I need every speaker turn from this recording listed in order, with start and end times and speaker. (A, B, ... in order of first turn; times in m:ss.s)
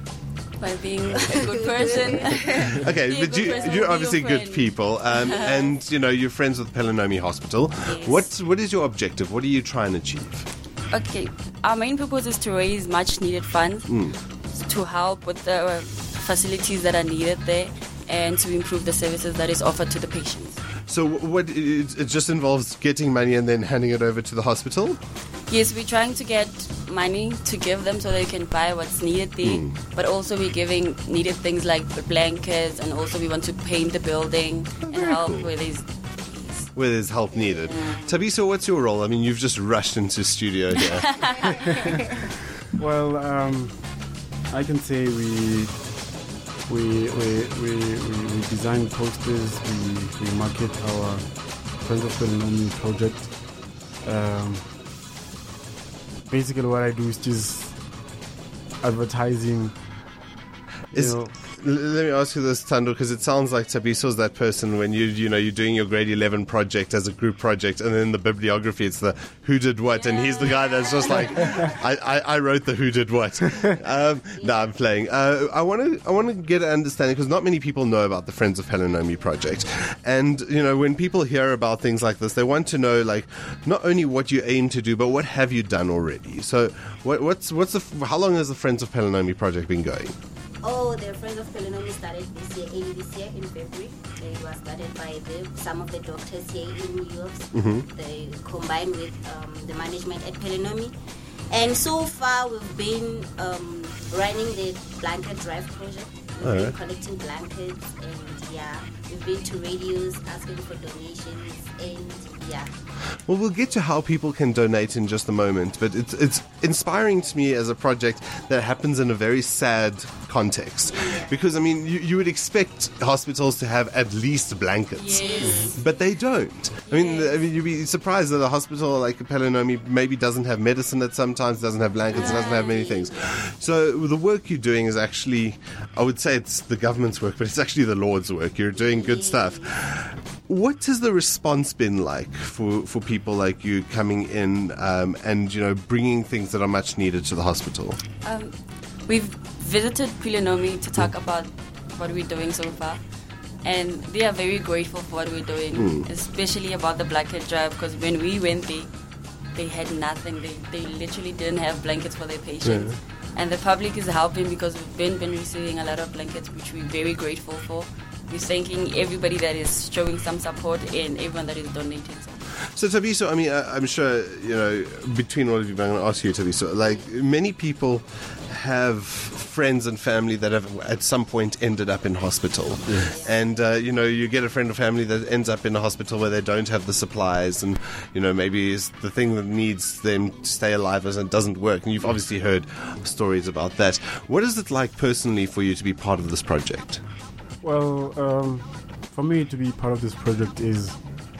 0:00.6-0:05.8 A
0:01.1-0:02.8 B
0:02.4-0:10.4 C
0:07.8-0:08.3 A
0:10.9-0:13.9 A
0:13.9-0:14.2 C
0:14.6-0:20.6 A
0:20.9-0:25.0 C
0:25.5-0:36.7 A
0:29.4-0:29.7 C
0:34.8-0:35.5 C
0:36.7-0:41.4 C
0:37.3-0:38.1 B
0:41.1-0:41.6 A
0:41.8-0:42.1 D
0:42.7-0:43.9 D
0:44.5-0:45.8 D
0:46.7-0:53.4 D
0:54.0-0:54.7 D
0:56.2-0:57.8 D
0:58.8-0:59.8 D
1:00.9-1:01.4 D
1:00.9-1:30.1 C
1:10.0-1:11.2 A
1:14.3-1:14.8 B
1:30.6-1:40.9 B
1:37.5-1:37.8 C
1:41.5-1:52.7 B
1:46.4-1:46.8 C
1:53.3-2:28.0 C
2:00.9-2:01.4 B
2:04.9-2:05.8 A
2:05.1-2:05.9 B
2:06.8-2:07.4 A
2:12.1-2:13.0 A
2:18.7-2:19.7 B
2:28.2-2:28.5 A
2:29.1-2:33.0 A
2:33.6-2:38.9 A
2:35.7-2:36.1 C
2:39.5-2:52.4 A
2:42.6-2:43.0 C
2:52.7-3:17.0 C
3:02.8-3:03.2 D
3:03.0-3:03.5 B
3:17.6-3:21.0 D